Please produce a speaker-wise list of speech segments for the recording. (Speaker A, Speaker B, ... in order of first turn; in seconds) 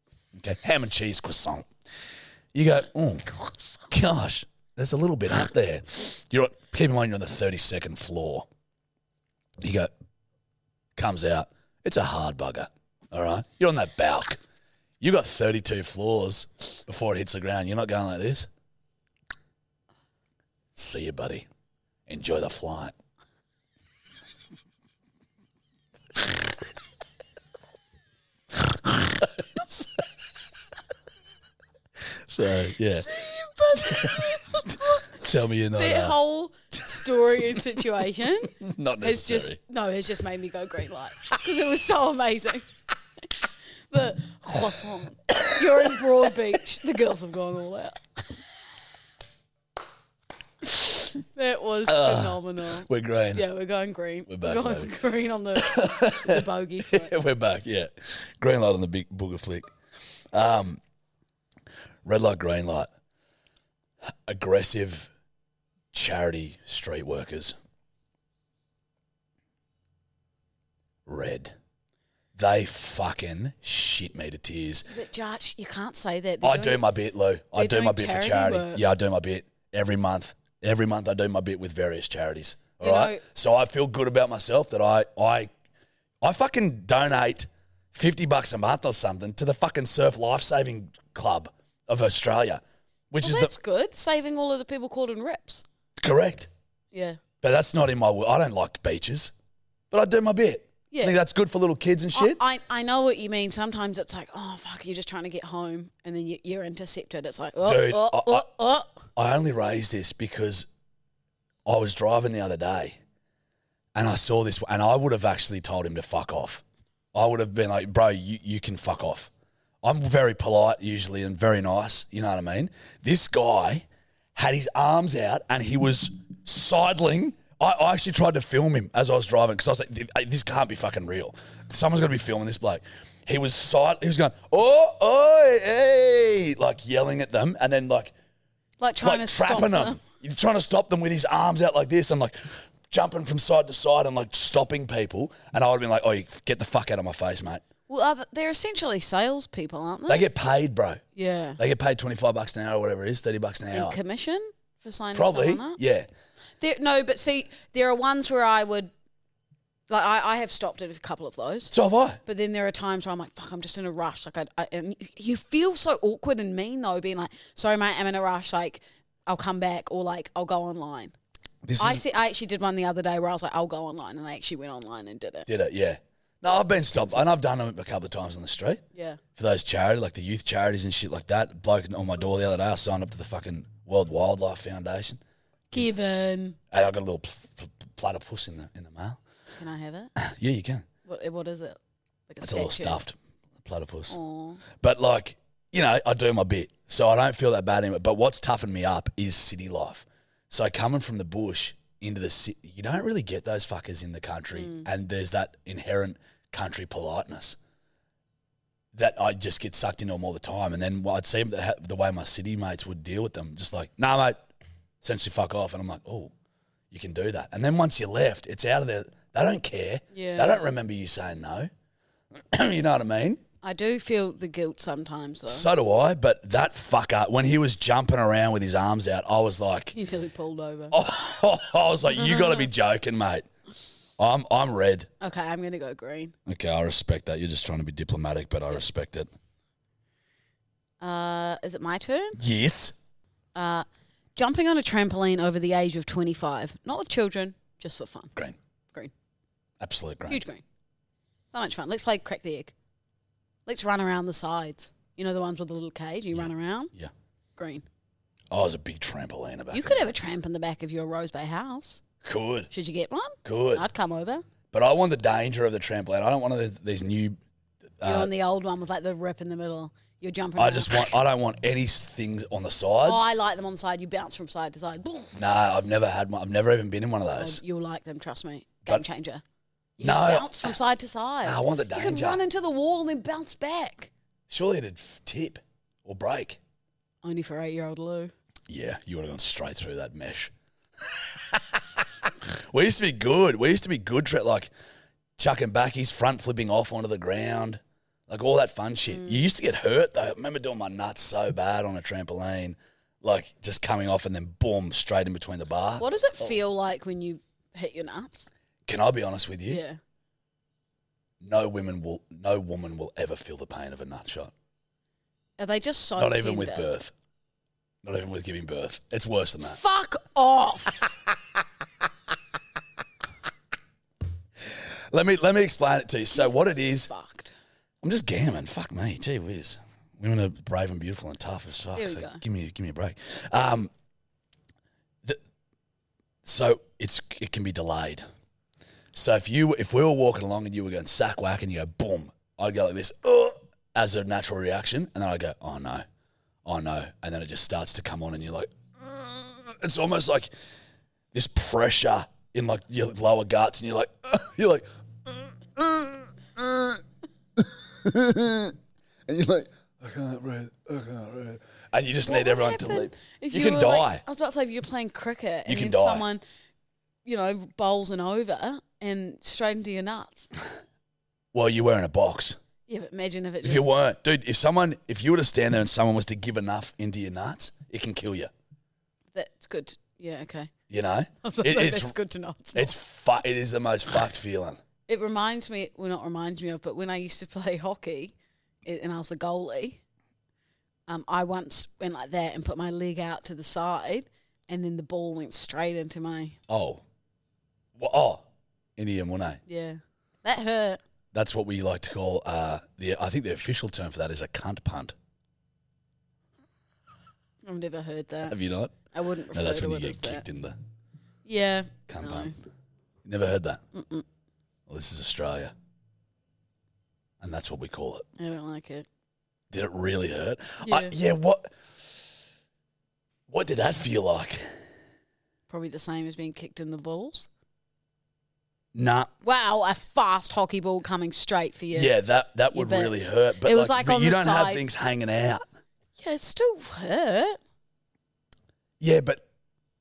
Speaker A: 0.3-1.7, 2.5-3.3, 3.9-8.5, 9.6-9.9, 10.9-14.4, 15.0-18.5, 20.7-21.5, 22.1-22.9, 28.6-30.0, 32.1-33.1, 33.7-36.2, 38.6-39.6, 45.4-45.9, 51.9-53.4, 54.3-54.9, 55.5-59.7, 60.3-60.8, 62.0-62.9, 64.0-65.1, 65.9-67.5, 71.0-71.5, 72.3-74.9, 76.4-85.5, 86.2-93.5, 96.0-96.5, 97.4-99.3, 99.9-102.4, 107.6-108.5, 109.1-110.7, 111.7-113.0, 113.9-116.6, 117.1-119.3, 119.8-138.1, 139.0-147.6, 150.1-151.0, 151.6-154.0, 155.1-156.1, 161.7-162.2, 171.6-172.0, 175.5-178.8, 179.3-185.2, 186.7-189.2, 190.2-190.8, 192.4-194.2, 194.7-207.6, 208.9-214.4, 215.0-216.3, 216.9-221.7, 222.3-223.4, 225.5-229.9, 230.9-233.5, 234.2-235.1, 236.4-239.3, 242.4-242.9, 249.8-250.4, 256.3-257.1, 258.5-260.1, 262.2-262.7, 263.4-263.9, 264.7-267.4, 268.0-268.3, 270.6-273.3, 275.3-277.6, 280.0-280.8, 281.4-282.4, 284.5-286.6, 288.7-290.5, 291.1-291.8, 292.5-294.7, 295.4-306.6, 308.9-309.8, 311.4-314.5, 316.2-317.1, 318.0-319.8, 324.6-327.1, 328.0-333.9, 336.4-338.2, 339.1-346.1, 346.6-350.5, 351.3-357.0, 357.6-358.8, 359.3-364.2, 365.6-366.2, 371.5-372.6, 373.6-378.5, 380.9-382.1, 382.7-384.8, 396.7-397.0, 397.9-398.4, 399.0-399.6, 401.3-405.1, 408.4-409.0, 409.5-410.8, 412.1-412.5, 413.2-413.8, 414.9-415.7, 417.4-418.3, 419.7-421.7, 423.5-424.7, 428.9-429.3, 431.9-435.6, 439.0-439.4
Speaker B: 32.9-35.2, 35.8-42.6, 43.9-48.0, 51.3-57.1, 74.9-76.8, 77.5-78.8, 82.8-83.2, 93.2-95.6, 96.9-97.2, 100.9-101.2, 102.1-109.0, 138.8-140.0, 147.9-150.3, 151.1-151.6, 153.7-155.8, 156.6-158.9, 159.9-161.7, 162.2-171.1, 171.8-175.5, 178.9-179.2, 185.7-186.6, 189.6-190.1, 191.0-191.8, 192.3-193.0, 194.1-194.6, 204.5-204.9, 220.1-220.7, 223.6-225.7, 229.9-230.9, 232.1-232.7, 235.2-236.3, 241.0-242.4, 243.5-248.3, 250.3-250.6, 251.5-252.7, 253.7-256.9, 257.6-257.8, 259.7-262.0, 262.7-264.4, 268.0-271.1, 273.0-275.4, 277.4-279.4, 280.0-284.1, 287.2-288.3, 299.1-299.4, 306.0-308.5, 309.7-310.0, 315.6-316.9, 319.6-321.1, 326.3-327.5, 331.9-332.4, 362.2-366.4, 367.2-370.5, 372.9-373.9, 379.3-380.7, 381.4-382.9, 385.1-388.3, 388.8-390.0, 391.1-396.6, 399.7-401.0, 407.6-408.6, 409.1-410.4, 411.4-412.5, 413.9-414.2, 418.4-419.1, 420.8-421.1, 425.7-427.5, 429.4-432.1, 432.7-434.8, 436.2-437.6